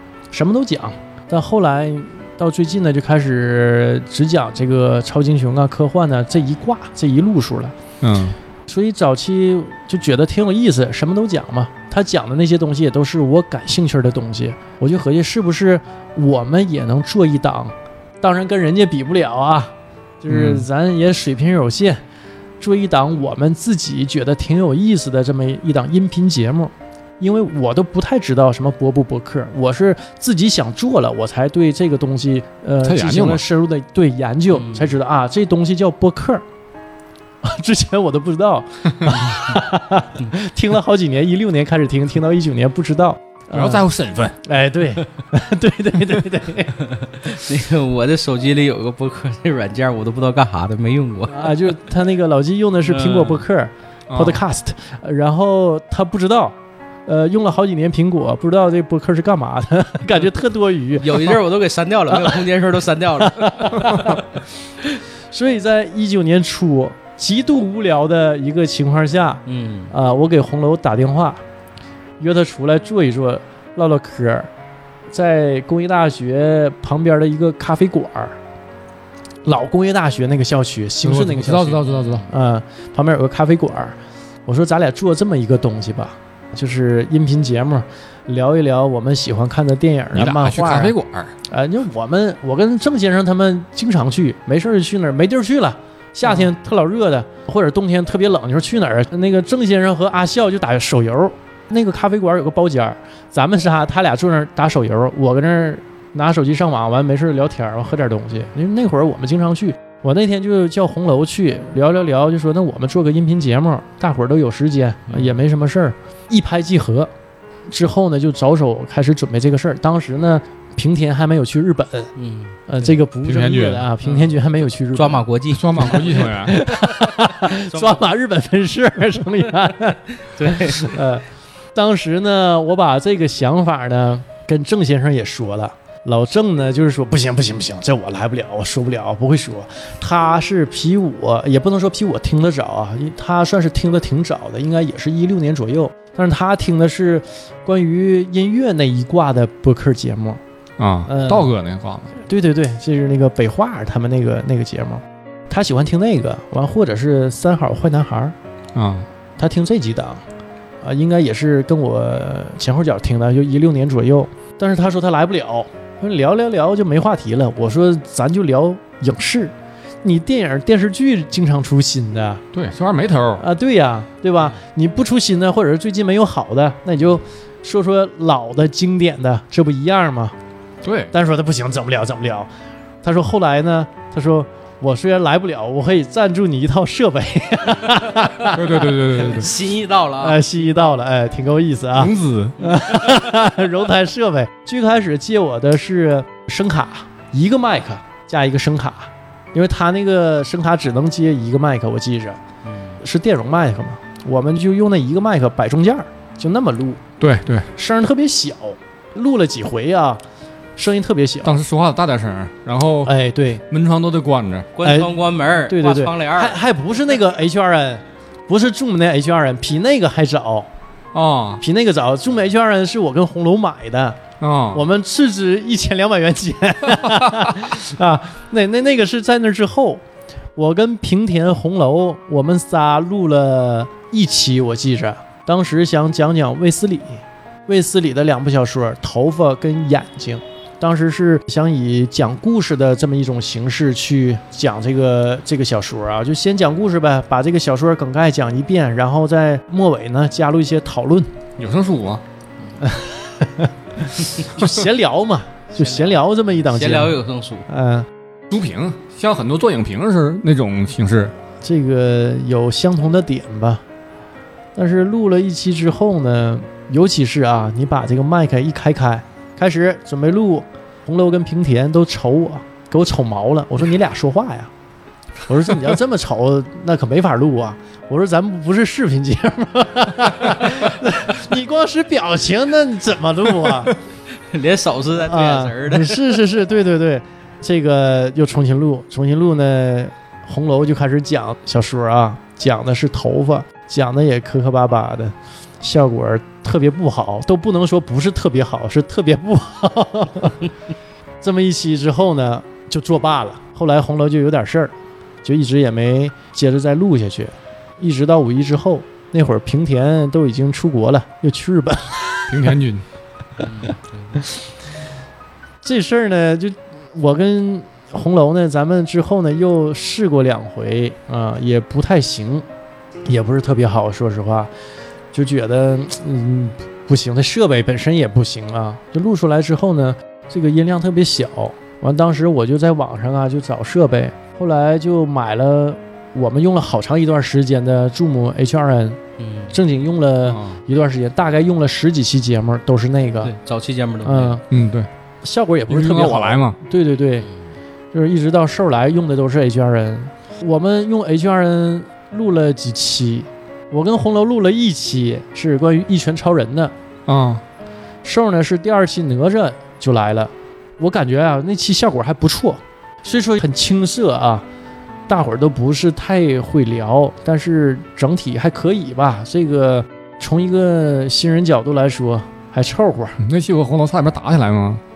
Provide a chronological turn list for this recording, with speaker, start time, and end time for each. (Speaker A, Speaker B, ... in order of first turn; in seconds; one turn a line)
Speaker A: 0.3-7.7
Speaker B: 8.0-8.4
Speaker A: 8.7-22.0
Speaker B: 20.3-20.7
Speaker A: 22.6-36.4
Speaker B: 32.8-33.4
Speaker C: 34.5-35.0
Speaker A: 37.4-43.9
Speaker B: 43.5-44.4
Speaker A: 44.4-46.8
Speaker C: 46.8-51.6
Speaker A: 51.3-56.5
Speaker C: 52.8-53.5
Speaker B: 54.1-54.4
Speaker A: 57.1-61.4
Speaker C: 61.0-64.1
Speaker A: 62.1-62.4
Speaker A: 63.2-64.3
Speaker A: 65.3-71.4
Speaker C: 69.5-69.9
Speaker A: 72.2-74.5
Speaker A: 75.1-78.4
Speaker A: 79.5-91.0
Speaker B: 81.0-82.3
Speaker C: 81.8-82.3
Speaker B: 90.1-91.3
Speaker A: 91.5-117.1
Speaker A: 117.7-122.1
Speaker C: 122.2-122.9
Speaker A: 122.7-125.2
Speaker B: 123.2-123.9
Speaker C: 124.0-124.3
Speaker C: 124.9-128.1
Speaker B: 125.5-126.6
Speaker A: 125.8-131.2
Speaker C: 130.3-130.9
Speaker A: 131.8-150.4
Speaker B: 150.8-152.2
Speaker A: 151.1-151.5
Speaker A: 152.2-158.3
Speaker B: 158.8-159.1
Speaker A: 159.4-160.2
Speaker A: 160.8-172.4
Speaker B: 172.5-173.4
Speaker A: 173.4-180.3
Speaker B: 180.8-181.1
Speaker A: 181.1-182.5
Speaker A: 183.0-188.9
Speaker B: 188.5-189.5
Speaker C: 189.1-190.4
Speaker A: 190.2-202.4
Speaker B: 191.9-192.6
Speaker C: 202.7-203.0
Speaker A: 203.0-207.0
Speaker B: 207.2-207.7
Speaker A: 207.8-210.2
Speaker A: 210.8-211.6
Speaker B: 211.4-213.1
Speaker A: 213.1-213.6
Speaker B: 213.7-214.7
Speaker C: 214.8-216.6
Speaker A: 214.8-215.2
Speaker A: 215.7-220.7
Speaker B: 221.1-221.6
Speaker A: 221.6-224.2
Speaker B: 224.4-224.8
Speaker A: 224.7-230.0
Speaker B: 227.0-227.6
Speaker A: 230.6-251.3
Speaker B: 251.6-252.2
Speaker A: 252.8-258.1
Speaker C: 255.8-257.6
Speaker B: 258.5-261.3
Speaker A: 261.6-263.8
Speaker A: 264.8-274.7
Speaker A: 275.4-284.0
Speaker C: 284.5-286.2
Speaker A: 285.2-300.7
Speaker A: 301.4-304.9
Speaker A: 305.4-312.7
Speaker B: 312.5-313.1
Speaker C: 313.6-314.4
Speaker A: 315.8-322.6
Speaker A: 323.3-324.7
Speaker A: 325.3-339.2
Speaker C: 339.4-339.8
Speaker A: 339.7-343.5
Speaker B: 340.5-340.8
Speaker C: 343.4-344.6
Speaker A: 344.2-344.6
Speaker B: 344.7-345.1
Speaker A: 345.4-347.5
Speaker B: 345.9-346.8
Speaker A: 348.1-356.9
Speaker B: 357.3-357.6
Speaker A: 358.2-364.6
Speaker A: 365.3-373.4
Speaker B: 373.4-375.0